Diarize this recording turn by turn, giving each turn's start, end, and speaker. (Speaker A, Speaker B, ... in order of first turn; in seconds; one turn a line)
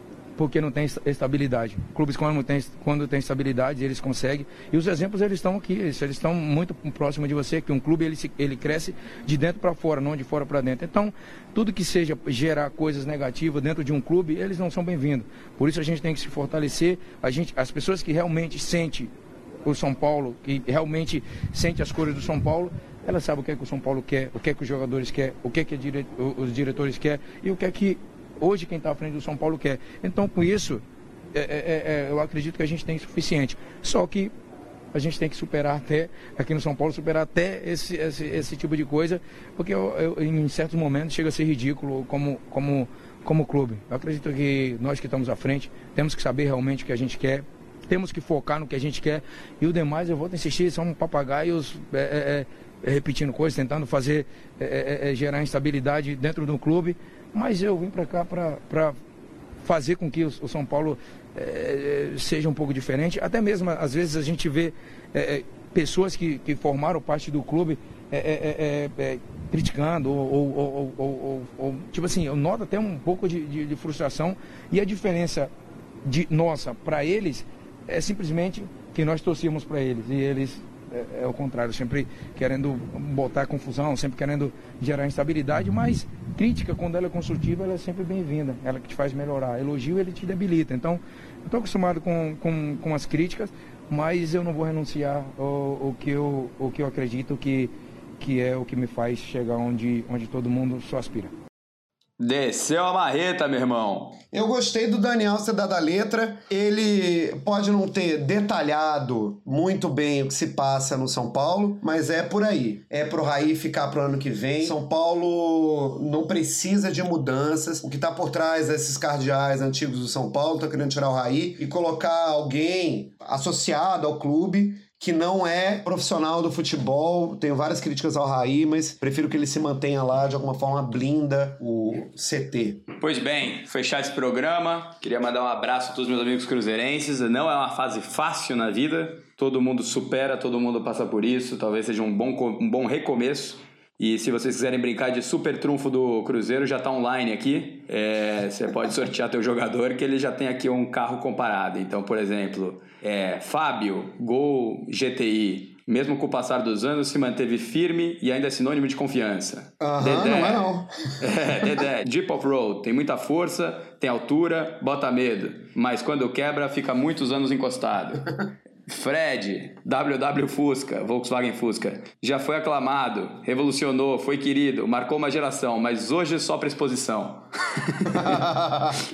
Speaker A: 0.3-19.1
Speaker A: 19.6-30.8
Speaker A: 31.3-34.3
Speaker A: 34.9-59.0
Speaker A: 59.6-75.5
Speaker A: 76.0-101.3
Speaker B: 102.2-104.2
Speaker C: 104.3-132.9
Speaker B: 133.0-160.7
Speaker C: 159.8-160.9
Speaker B: 161.2-168.3
Speaker B: 168.8-178.5
Speaker C: 178.2-178.9